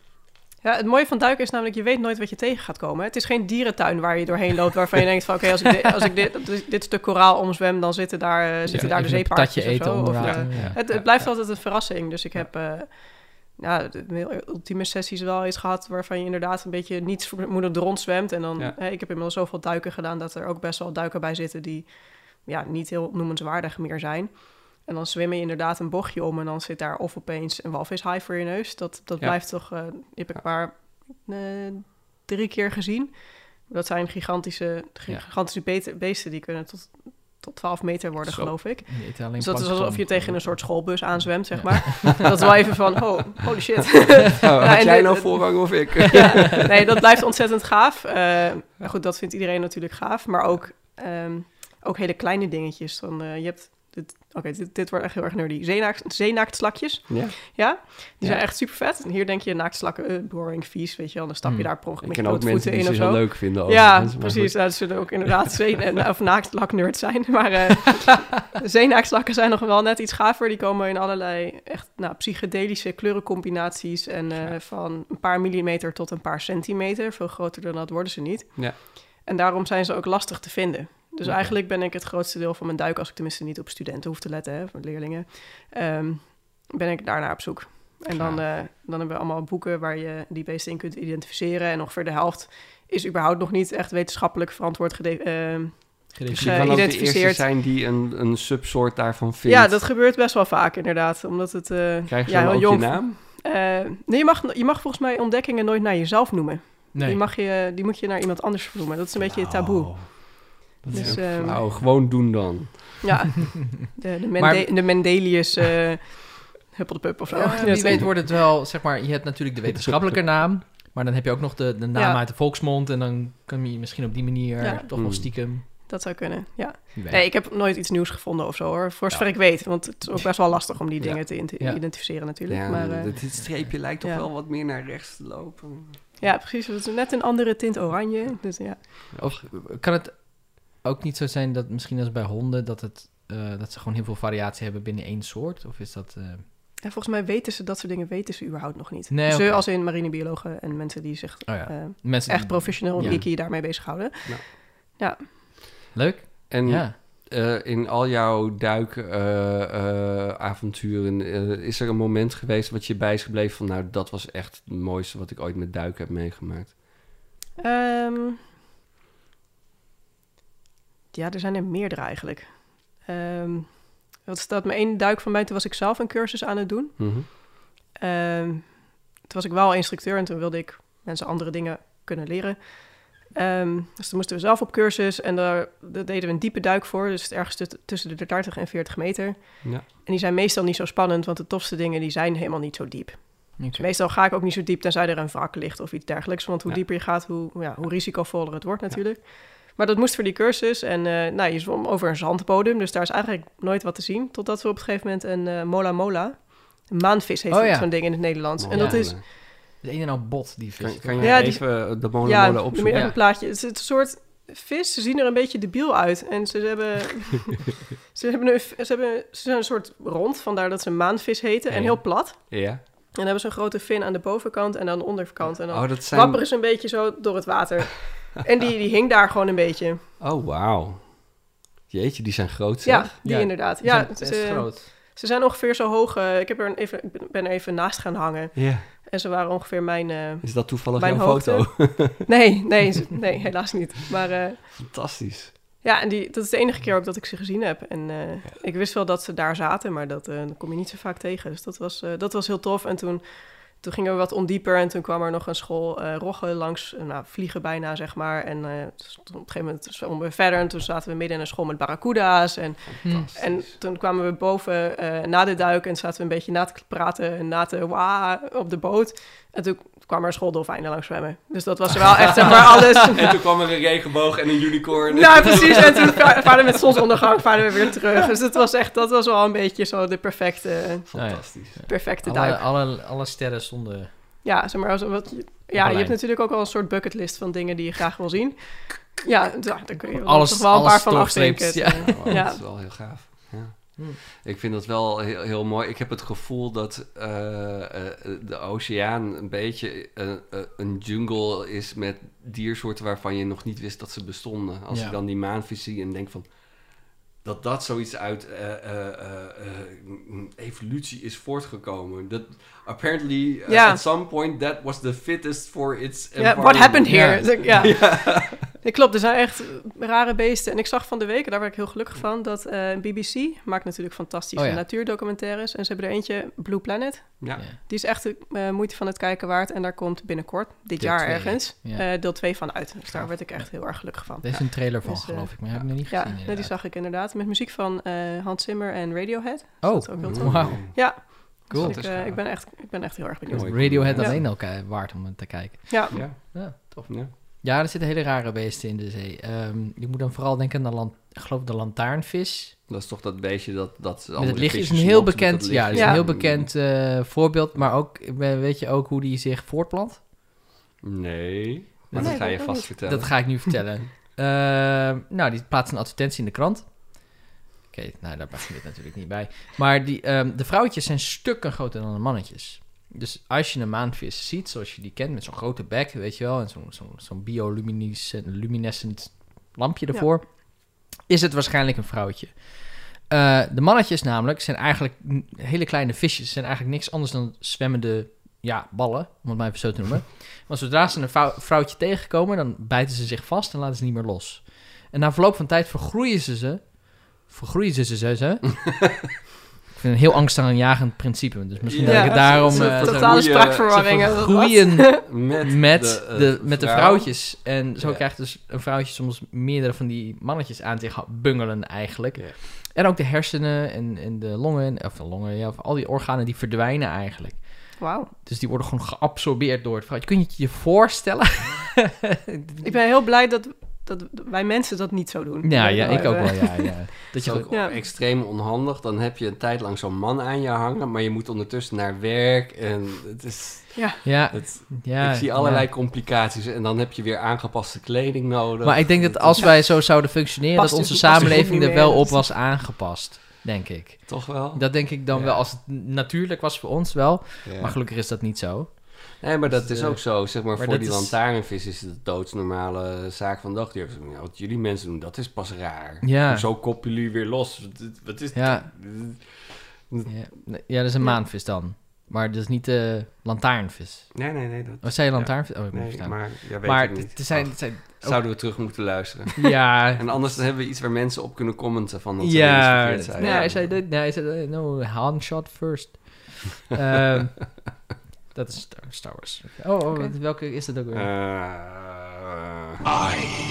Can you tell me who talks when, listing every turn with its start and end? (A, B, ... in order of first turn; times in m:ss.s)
0:00.6-1:37.4 A
0:08.7-0:11.0 B
0:10.2-0:11.3 C
0:38.2-0:38.6 C
0:38.8-0:42.2 B
0:44.2-0:46.7 C
0:57.1-0:58.4 C
1:01.4-1:01.7 B
1:02.0-1:05.3 C
1:21.2-1:21.5 C
1:28.1-1:28.4 C
1:36.1-1:36.9 B
1:36.3-1:39.8 C
1:39.4-1:51.6 A
1:42.1-1:43.1 C
1:46.9-1:47.2 B
1:49.2-1:53.0 C
1:50.9-1:51.8 B
1:53.0-1:58.2 A
1:54.4-1:55.2 B
1:57.3-2:05.6 B
2:01.9-2:02.2 A
2:04.6-2:13.5 A
2:05.0-2:05.3 C
2:06.9-2:07.2 B
2:09.1-2:09.7 B
2:11.0-2:11.2 C
2:12.5-2:16.0 C
2:14.0-2:14.2 A
2:16.2-2:19.1 A
2:19.1-2:19.5 C
2:19.2-2:26.4 B
2:26.8-2:35.3 A
2:29.1-2:29.7 B
2:31.5-2:33.2 B
2:33.0-2:33.5 C
2:35.9-2:37.0 B
2:36.5-2:46.8 C
2:47.6-2:48.4 A
2:51.1-3:29.2 A
2:57.0-2:57.3 C
3:13.6-3:13.8 B
3:27.5-3:31.5 B
3:28.6-3:29.2 C
3:30.8-3:33.1 C
3:31.2-3:50.0 A
3:32.9-3:33.2 B
3:41.8-3:42.8 C
3:45.7-3:46.4 C
3:50.2-3:51.4 C
3:51.9-3:53.1 C
3:52.8-4:04.9 A
3:53.2-3:54.9 B
3:58.5-3:58.9 C
4:00.4-4:02.3 C
4:04.8-4:05.5 C
4:05.8-4:33.4 A
4:22.9-4:23.7 C
4:23.0-4:23.3 B
4:32.9-4:37.1 C
4:35.1-4:42.6 A
4:41.1-4:41.8 C
4:41.1-4:44.1 B
4:44.4-4:52.6 A
4:45.7-4:46.2 B
4:50.1-4:52.5 B
4:52.0-5:18.7 C
5:04.9-5:05.2 B
5:13.7-5:14.0 A
5:16.4-5:44.4 A
5:17.1-5:17.5 B
5:24.6-5:24.8 B
5:31.0-5:32.1 B
5:34.4-5:36.7 B
5:39.8-5:42.0 B
5:40.2-5:42.4 C
5:43.5-5:44.4 C
5:43.6-5:52.8 B
5:45.9-5:46.2 A
5:46.1-5:47.3 C
5:52.9-5:56.7 C
5:54.4-6:00.2 B
5:55.9-5:56.2 A
6:01.0-6:03.7 C
6:02.1-6:39.2 B
6:02.2-6:03.2 A
6:39.9-7:02.8 B
6:41.8-6:44.2 C
6:42.0-6:45.2 A
6:45.2-6:48.2 C
6:58.0-6:58.3 A
7:02.8-7:07.1 A
7:05.6-7:07.7 B
7:06.0-7:06.6 C
7:07.3-7:19.7 C
7:07.7-7:08.0 A
7:13.9-7:14.2 A
7:14.2-7:15.9 B
7:18.8-7:31.4 B
7:19.6-7:20.0 A
7:20.8-7:22.5 A
7:24.3-7:25.7 C
7:27.6-7:28.0 C
7:29.4-7:40.3 C
7:36.2-7:36.7 B
7:38.5-7:38.9 B
7:40.2-7:50.6 B
7:44.3-7:53.9 C
7:52.4-7:57.9 B
7:53.4-7:53.7 A
7:58.5-8:01.3 B
8:01.1-8:03.1 C